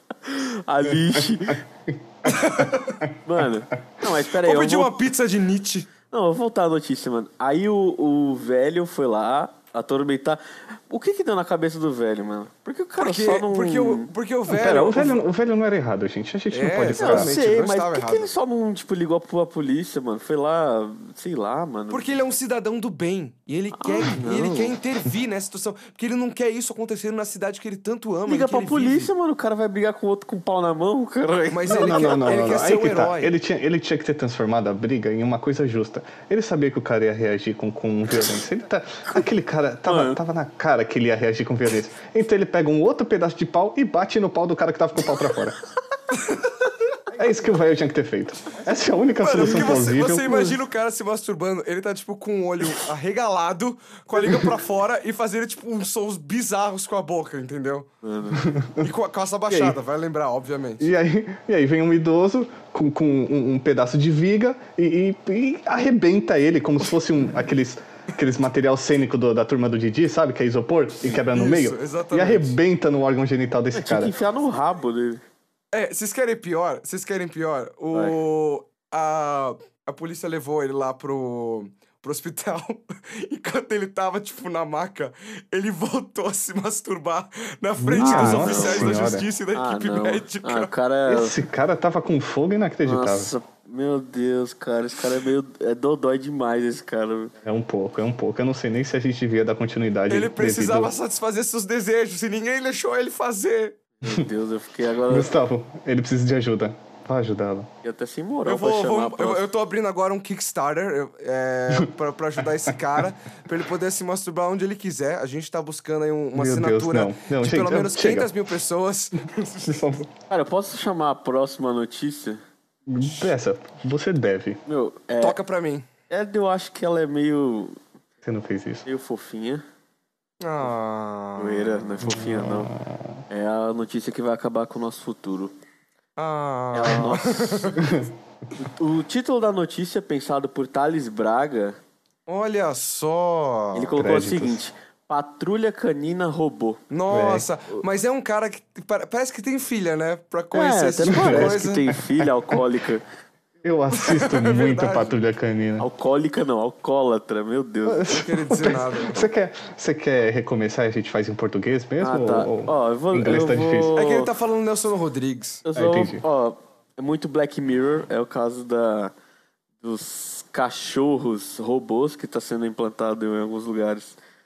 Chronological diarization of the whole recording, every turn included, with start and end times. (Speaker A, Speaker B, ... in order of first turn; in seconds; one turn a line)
Speaker A: 0.2-1.6
Speaker B: 0.9-1.4
Speaker B: 1.9-3.2
Speaker C: 2.2-3.0
Speaker A: 3.2-5.0
Speaker C: 4.4-5.9
Speaker A: 6.1-14.1
Speaker C: 13.0-15.2
Speaker B: 14.5-17.3
Speaker C: 16.5-18.3
Speaker A: 17.0-22.1
Speaker C: 21.9-29.1
Speaker A: 23.7-24.8
Speaker A: 28.3-32.3
Speaker C: 31.5-33.3
Speaker B: 31.7-45.6
Speaker A: 39.9-40.2
Speaker B: 47.1-50.6
Speaker C: 49.2-57.9
Speaker A: 58.0-58.5
Speaker B: 58.4-58.9
Speaker C: 58.8-60.9
Speaker B: 59.5-59.8
Speaker B: 60.8-74.2
Speaker C: 71.0-72.6
Speaker A: 73.7-75.2
Speaker C: 75.7-90.7
Speaker B: 87.8-89.2
Speaker A: 88.0-91.4
Speaker B: 91.1-93.3
Speaker A: 92.9-97.3
Speaker B: 97.4-100.9
Speaker C: 100.1-103.8
Speaker A: 104.0-105.3
Speaker B: 105.1-107.7
Speaker A: 107.8-109.5
Speaker C: 108.5-119.9
Speaker B: 116.3-118.3
Speaker B: 119.6-120.1
Speaker A: 120.3-122.4
Speaker B: 122.9-124.6
Speaker A: 124.7-125.4
Speaker C: 125.2-125.9
Speaker A: 126.1-127.8
Speaker B: 128.2-128.8
Speaker A: 128.9-129.6
Speaker C: 130.4-131.9
Speaker A: 131.4-132.7
Speaker B: 132.0-133.2
Speaker A: 133.3-135.5
Speaker C: 136.2-137.8
Speaker A: 136.7-137.8
Speaker B: 137.8-138.1
Speaker A: 138.6-141.8
Speaker C: 142.3-143.9
Speaker A: 143.7-146.8
Speaker B: 144.0-144.6
Speaker C: 146.9-152.0
Speaker B: 147.1-147.5
Speaker A: 150.5-153.0
Speaker B: 151.1-151.6
Speaker B: 153.6-155.9
Speaker C: 153.9-155.2
Speaker A: 155.8-158.2
Speaker B: 157.9-163.9
Speaker C: 158.1-159.2
Speaker A: 162.0-164.3
Speaker C: 163.9-165.6
Speaker A: 165.6-169.1
Speaker B: 165.7-166.2
Speaker A: 169.8-174.2